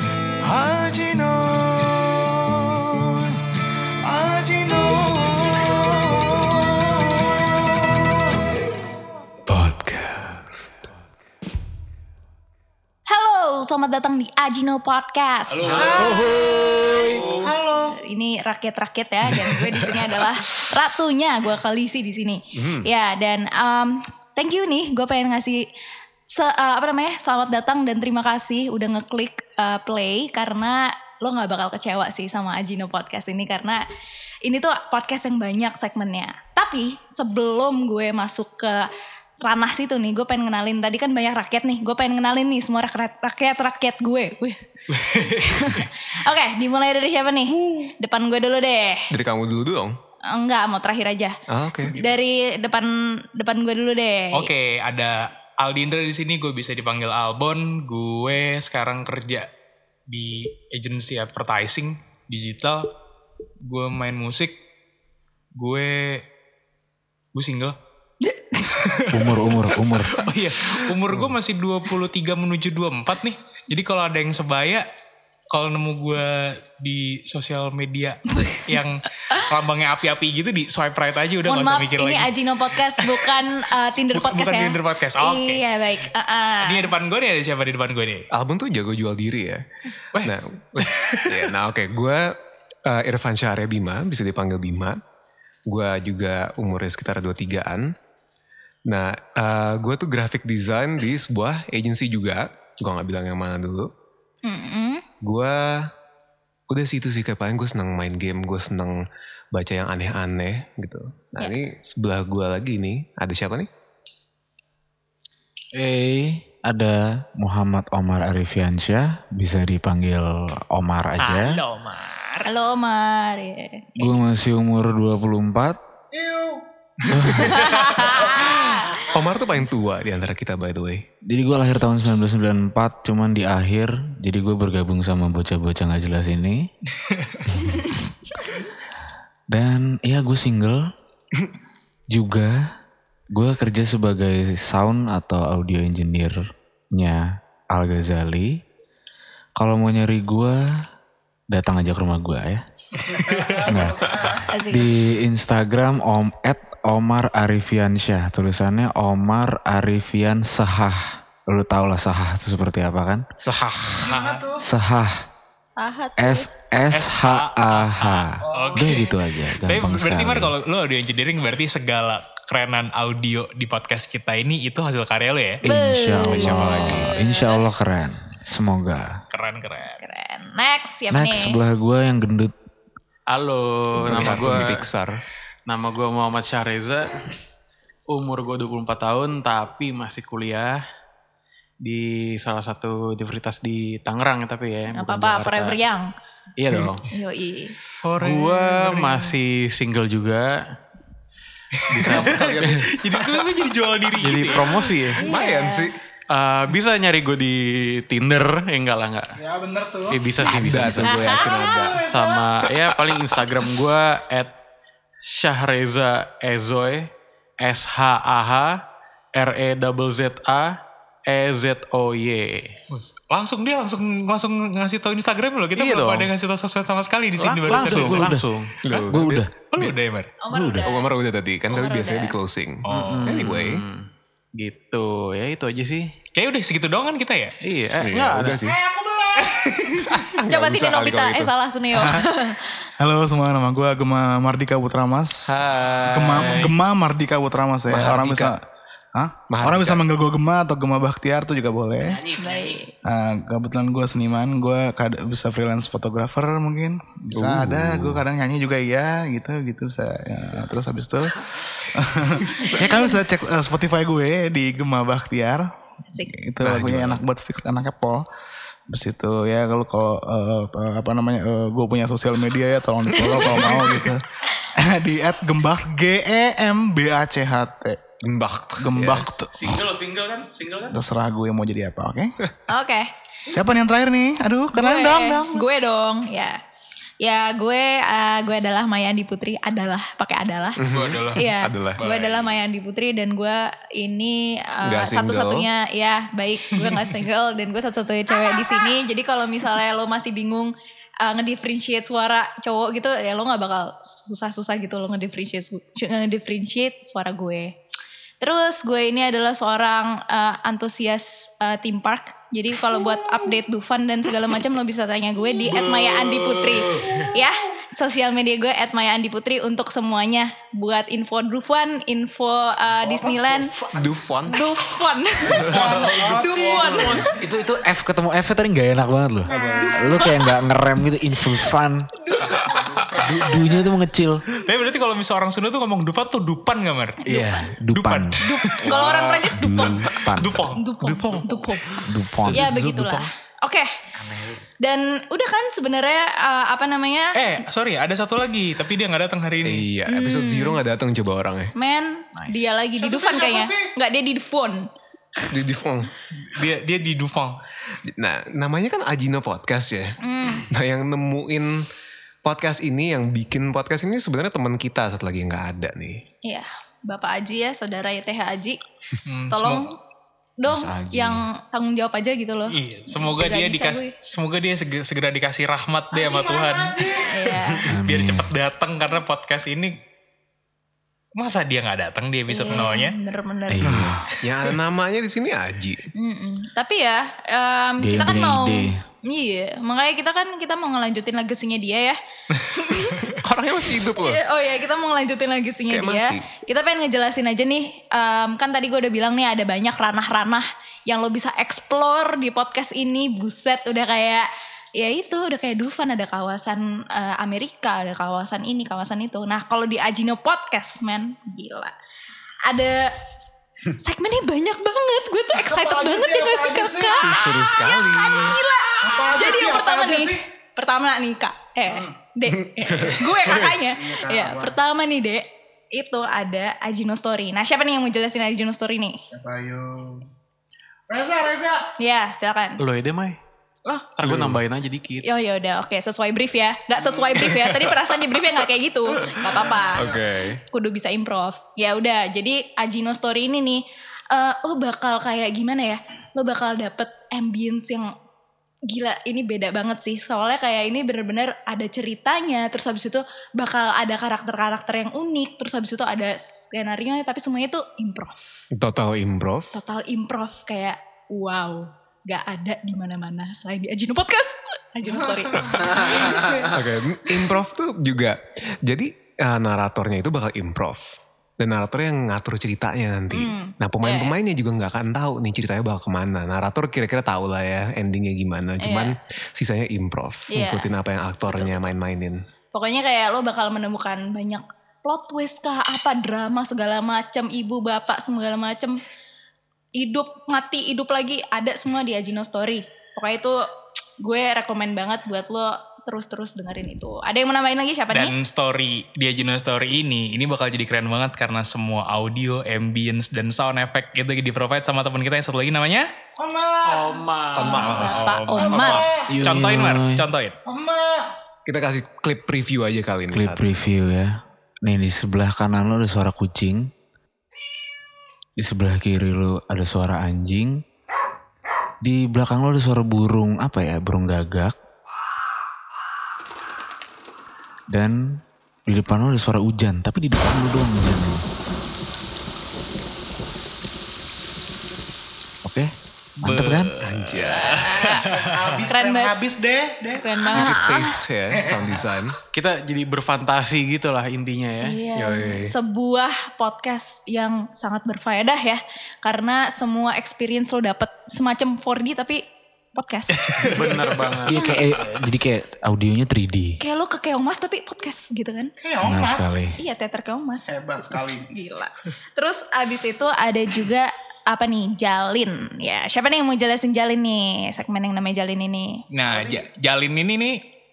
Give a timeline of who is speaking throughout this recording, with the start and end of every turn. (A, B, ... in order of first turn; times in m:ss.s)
0:00.4-0:03.4 A
0:04.0-0:08.2 A
0:09.5-0:10.7 B
0:13.1-0:15.9 C
0:15.6-0:16.1 D
0:15.7-0:16.2 A
0:15.9-0:17.5 B
0:17.1-0:17.5 D
0:17.4-0:17.9 A
0:17.8-0:25.6 C
0:22.6-0:22.9 B
0:26.3-0:33.8 C
0:34.4-0:38.9 C
0:39.4-0:44.6 C
0:44.9-0:45.9 D
0:45.4-0:49.0 C
0:49.1-0:49.9 B
0:50.3-0:51.3 C
0:51.5-0:51.9 B
0:51.9-0:54.5 C
0:54.3-0:59.5 D
1:00.1-1:02.9 D
1:03.6-1:04.6 D
1:05.5-1:06.2 D
1:07.3-1:07.8 D
1:08.2-1:08.9 C
1:09.1-1:14.8 D
1:09.1-1:10.2 E
1:15.5-1:22.3 D
1:18.3-1:19.5 C
1:21.4-1:26.9 C
1:24.1-1:25.6 D
1:26.6-1:28.3 D
1:28.3-1:29.6 B
1:30.1-1:31.5 D
1:30.2-1:32.3 B
1:32.8-1:35.0 B
1:35.7-1:37.9 B
1:38.9-1:43.9 B
1:44.4-1:45.0 C
1:45.2-1:45.6 B
1:46.7-1:49.0 B
1:49.5-1:53.7 B
1:55.7-2:01.6 E
2:01.2-2:02.5 D
2:02.4-2:04.2 C
2:04.0-2:05.8 E
2:06.1-2:06.6 A
2:07.1-2:07.7 E
2:07.3-2:09.1 C
2:08.0-2:08.5 A
2:09.1-2:11.0 B
2:11.3-2:16.6 E
2:17.0-2:17.5 D
2:19.5-2:20.8 E
2:22.1-2:22.5 E
2:23.3-2:26.4 E
2:26.9-2:28.6 E
2:29.6-2:30.6 E
2:31.5-2:32.6 E
2:33.0-2:33.7 D
2:33.5-2:34.4 A
2:33.6-2:43.2 E
2:34.5-2:35.0 C
2:43.4-2:44.6 D
2:44.0-2:44.6 A
2:44.6-2:45.2 E
2:45.8-2:46.5 C
2:46.2-2:50.5 E
2:46.9-2:55.6 D
2:48.5-2:49.0 A
2:55.6-2:59.1 E
2:55.6-2:57.4 C
2:59.3-3:00.0 D
3:00.0-3:01.6 C
3:01.1-3:02.5 E
3:03.3-3:04.9 F
3:04.0-3:05.2 B
3:05.7-3:07.2 F
3:08.1-3:10.8 F
3:11.8-3:15.8 F
3:14.9-3:16.1 C
3:16.6-3:17.0 F
3:17.1-3:17.8 C
3:18.0-3:19.4 D
3:18.2-3:20.6 F
3:21.8-3:25.0 D
3:21.9-3:22.8 F
3:22.0-3:22.9 B
3:24.2-3:25.2 F
3:25.1-3:25.9 C
3:25.2-3:25.9 B
3:26.3-3:29.4 F
3:29.4-3:30.3 A
3:30.1-3:31.3 F
3:30.4-3:31.7 C
3:30.5-3:32.0 B
3:31.3-3:32.4 A
3:32.0-3:34.5 F
3:32.9-3:33.2 B
3:35.2-3:37.1 F
3:37.6-3:38.7 F
3:39.4-3:40.7 F
3:41.3-3:42.8 F
3:42.9-3:48.2 D
3:45.7-3:46.3 F
3:47.4-3:48.7 F
3:47.7-3:48.4 E
3:48.8-3:49.9 B
3:49.1-3:49.5 E
3:49.7-3:50.3 D
3:50.4-3:51.1 C
3:50.5-3:50.9 E
3:50.8-3:53.8 B
3:51.7-3:52.3 C
3:52.8-3:53.5 D
3:52.9-3:56.1 F
3:56.3-3:57.5 D
3:57.6-3:58.6 F
3:58.0-3:58.8 B
3:58.7-3:59.6 A
3:59.4-3:59.7 D
3:59.8-4:01.5 B
4:00.4-4:02.8 C
4:01.9-4:02.2 A
4:03.0-4:08.6 A
4:05.5-4:06.8 B
4:07.9-4:08.6 B
4:09.1-4:12.2 A
4:09.5-4:10.0 B
4:12.4-4:12.9 C
4:13.0-4:25.7 A
4:17.3-4:18.2 B
4:22.6-4:23.2 C
4:26.3-4:28.2 A
4:26.6-4:27.2 B
4:28.9-4:38.0 A
4:38.2-4:39.3 B
4:38.8-4:39.8 A
4:39.6-4:41.0 D
4:40.9-4:42.4 A
4:42.7-4:43.1 C
4:43.5-4:45.6 A
4:44.7-4:46.6 C
4:47.2-4:50.8 C
4:50.8-4:52.0 B
4:50.8-4:51.4 D
4:51.3-5:00.7 C
4:52.0-4:52.6 D
4:54.8-4:55.7 B
5:01.2-5:07.7 C
5:08.4-5:23.7 C
5:23.0-5:24.1 A
5:23.9-5:24.6 B
5:24.5-5:27.4 C
5:25.5-5:26.0 B
5:25.6-5:27.3 A
5:27.4-5:32.1 E
5:29.5-5:30.6 C
5:29.5-5:30.0 A
5:32.2-5:32.8 C
5:33.2-5:34.4 E
5:34.6-5:37.2 D
5:37.2-5:37.7 C
5:37.2-5:38.4 E
5:37.9-5:40.8 D
5:38.4-5:40.2 C
5:39.5-5:40.6 E
5:40.7-5:41.8 C
5:41.0-5:42.8 B
5:42.1-5:42.9 E
5:42.5-5:43.9 C
5:44.8-5:47.3 C
5:47.4-5:49.9 D
5:49.6-5:51.7 B
5:50.1-5:50.8 C
5:51.7-5:54.8 C
5:52.4-5:52.7 F
5:53.0-5:53.9 A
5:55.5-5:56.1 B
5:56.3-5:57.6 D
5:58.0-6:00.1 B
6:00.2-6:00.6 C
6:00.7-6:01.8 B
6:02.4-6:06.2 B
6:06.4-6:08.8 C
6:09.2-6:09.9 D
6:09.5-6:09.8 C
6:10.6-6:14.1 C
6:10.6-6:11.4 E
6:12.7-6:19.9 D
6:16.2-6:17.2 A
6:17.2-6:17.9 C
6:17.9-6:18.5 E
6:21.3-6:23.1 D
6:22.5-6:24.0 C
6:23.7-6:24.2 E
6:24.4-6:26.0 B
6:26.2-6:32.2 C
6:28.0-6:29.0 E
6:32.7-6:33.3 C
6:33.4-6:34.4 B
6:33.8-6:51.9 C
6:35.9-6:36.4 B
6:52.6-6:53.1 C
6:54.0-7:09.2 C
6:55.6-6:57.3 A
6:57.2-6:58.6 B
6:59.0-7:00.4 A
7:02.9-7:03.3 B
7:03.9-7:04.7 A
7:09.3-7:10.3 A
7:11.1-7:11.9 A
7:12.0-7:12.8 C
7:12.8-7:13.4 F
7:14.2-7:15.2 F
7:14.2-7:14.6 B
7:15.2-7:20.1 C
7:17.3-7:17.9 D
7:20.0-7:20.6 B
7:20.7-7:23.8 C
7:24.3-7:28.1 C
7:28.9-7:38.4 C
7:38.8-7:39.7 B
7:39.7-7:46.6 C
7:45.8-7:51.0 B
7:51.6-8:02.4 B
7:53.3-7:54.3 C
7:58.8-7:59.1 C
8:00.5-8:00.9 C
8:01.5-8:01.9 C
8:02.7-8:09.0 C
8:10.0-8:13.6 C
8:14.2-8:18.3 C
8:18.1-8:26.1 D
8:26.4-8:27.2 A
8:26.8-8:28.1 F
8:27.6-8:29.0 C
8:27.6-8:30.6 D
8:27.7-8:28.2 B
8:28.6-8:29.3 A
8:29.3-8:30.2 E
8:30.6-8:31.3 A
8:31.6-8:33.6 B
8:33.3-8:34.3 E
8:34.8-8:36.9 E
8:38.6-8:40.8 E
8:42.0-8:44.7 E
8:47.9-8:51.4 E
8:56.4-8:56.9 E
8:56.4-8:58.9 D
8:57.0-8:57.8 B
8:58.0-9:00.6 A
8:58.9-8:59.4 C
9:00.1-9:01.1 C
9:00.4-9:02.4 B
9:01.5-9:01.8 A
9:02.5-9:05.0 F
9:04.8-9:12.4 C
9:05.1-9:05.7 B
9:13.0-9:13.8 C
9:13.4-9:14.3 D
9:13.6-9:14.7 F
9:14.4-9:16.8 E
9:14.5-9:14.8 C
9:16.8-9:18.7 C
9:18.8-9:19.5 A
9:19.0-9:19.8 E
9:19.7-9:29.0 C
9:20.7-9:21.4 A
9:29.1-9:30.6 D